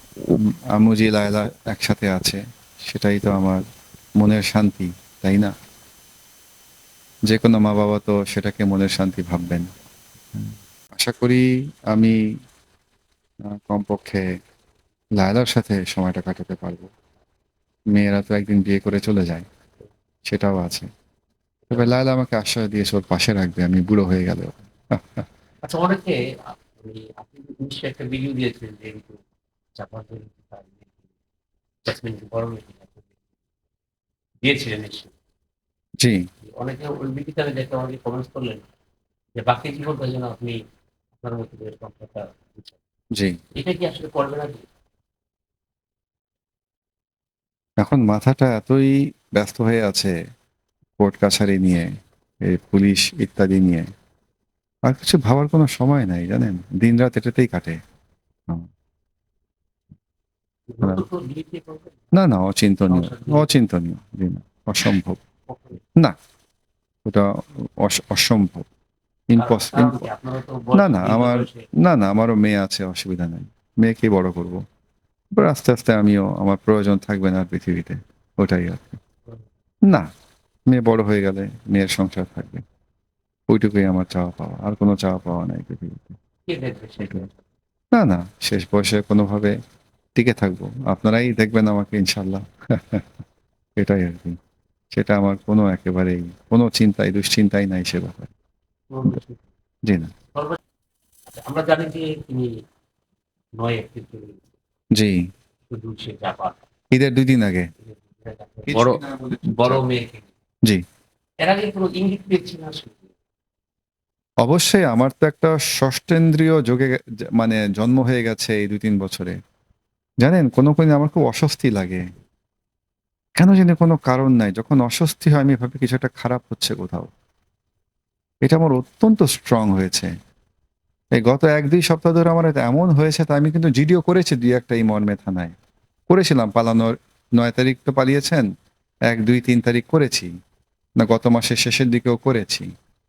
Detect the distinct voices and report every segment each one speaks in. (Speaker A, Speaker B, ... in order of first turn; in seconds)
Speaker A: 0.2-3.6, 4.2-5.5, 7.3-9.7, 10.3-12.2, 13.4-14.3, 15.2-16.9, 17.9-19.4, 20.3-20.9, 21.7-25.2, 43.1-43.4, 47.8-50.1, 51.0-51.9, 52.4-53.9, 54.9-57.8, 62.1-65.2, 67.0-68.7, 69.3-70.1, 70.7-74.6, 75.3-79.0, 80.7-82.6, 83.5-86.2, 87.0-87.2, 87.9-89.5, 90.2-93.0, 93.8-94.4, 94.9-98.3, 99.9-100.1, 104.9-105.2, 106.9-107.7, 108.7-109.8, 114.4-119.4, 120.2-122.0, 123.4-127.1, 128.4-130.1, 131.2-135.5, 136.1-138.4, 139.1-140.3, 141.0-142.7
Speaker B: 25.6-29.2, 29.8-31.1, 31.8-33.1, 34.4-35.1, 36.5-38.6, 39.4-40.6, 41.2-42.8, 43.5-44.6, 60.7-62.1, 62.8-63.6, 65.5-65.8, 69.4-71.7, 86.5-87.3, 98.9-99.5, 100.3-100.6, 101.3-102.6, 103.6-104.4, 105.7-106.6, 107.8-110.3, 111.4-113.1